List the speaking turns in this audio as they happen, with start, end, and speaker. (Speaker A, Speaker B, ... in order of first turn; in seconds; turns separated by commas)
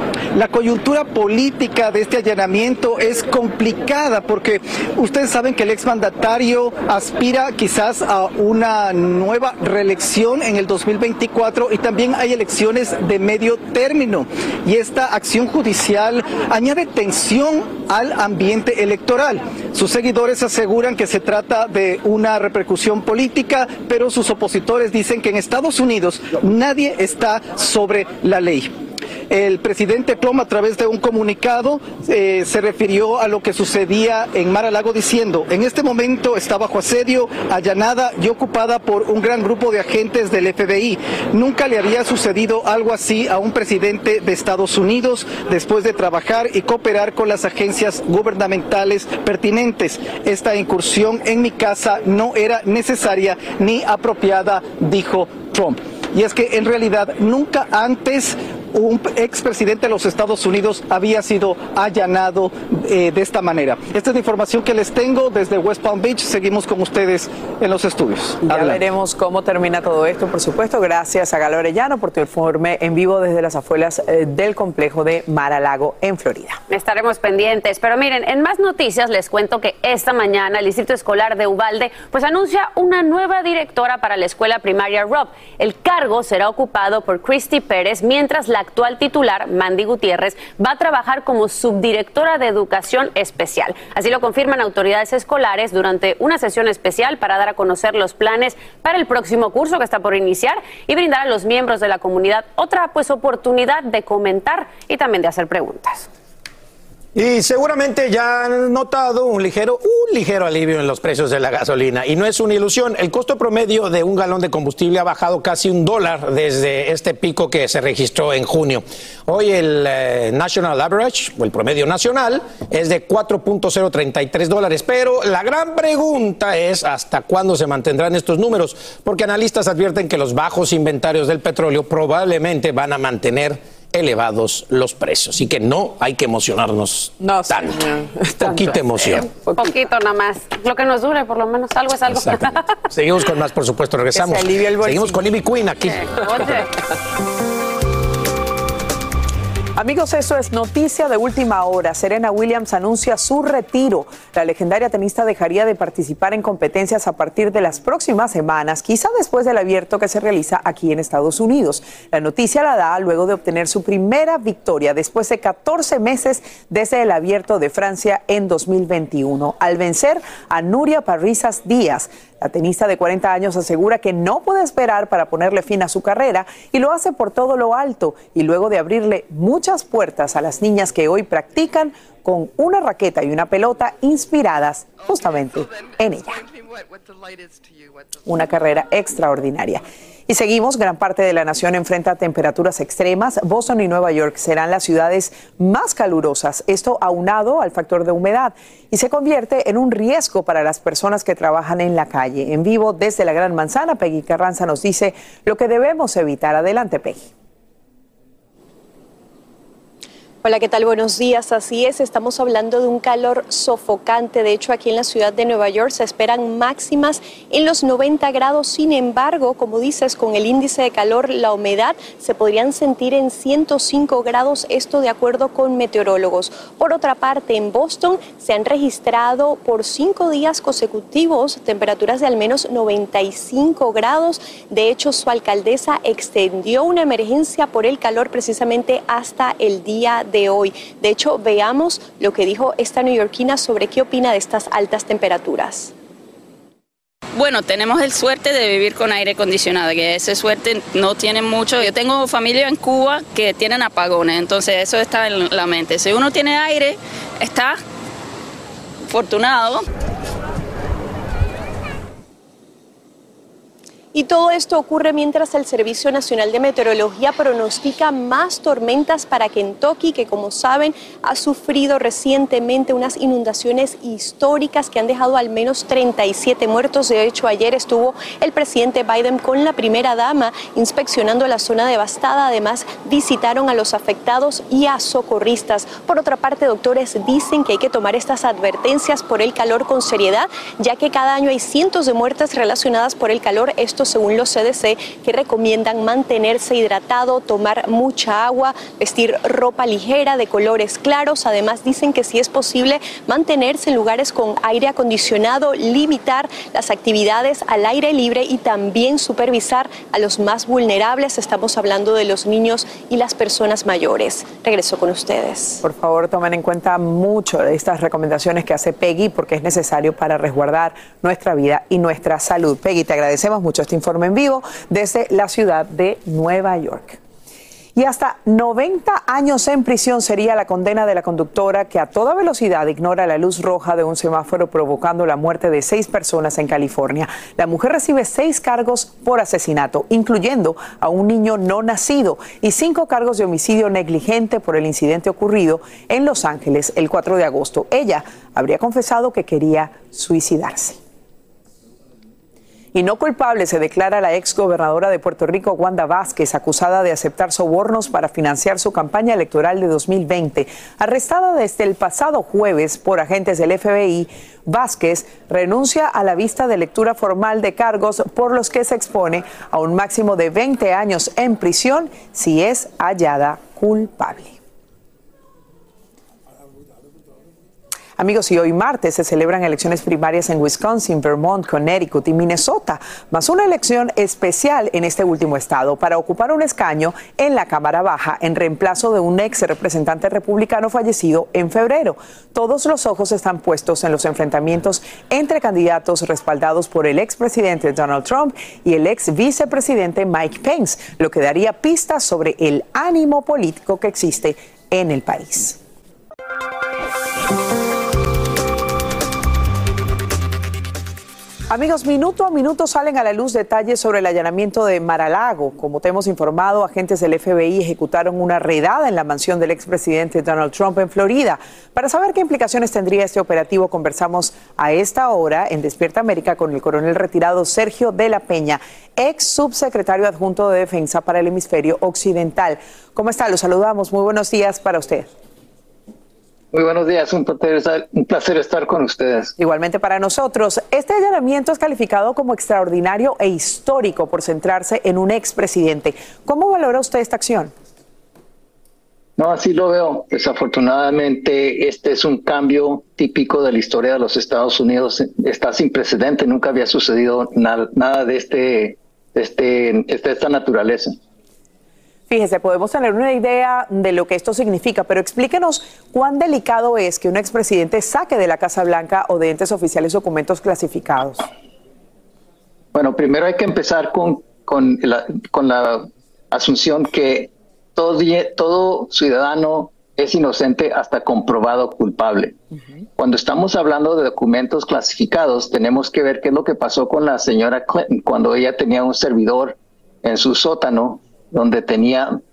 Speaker A: 0.3-28.7, Speaker A: 29.3-68.8, Speaker B: 68.4-76.6, Speaker C: 76.7-106.1, Speaker D: 107.2-139.3, Speaker B: 137.2-138.7, Speaker C: 139.6-142.7, Speaker D: 142.1-146.0, Speaker B: 144.1-145.3, Speaker C: 145.8-146.7, Speaker B: 149.8-186.4, Speaker B: 188.3-207.3, Speaker E: 210.4-245.9, Speaker F: 247.3-257.8, Speaker F: 259.1-259.9, Speaker E: 264.1-315.8, Speaker B: 315.8-327.2, Speaker B: 328.0-351.0, Speaker B: 352.9-374.6, Speaker B: 378.2-405.8, Speaker B: 411.7-435.3, Speaker G: 436.7-439.5, Speaker B: 439.6-447.7, Speaker G: 449.4-461.2, Speaker B: 462.3-471.5, Speaker G: 472.9-482.6, Speaker G: 483.2-492.4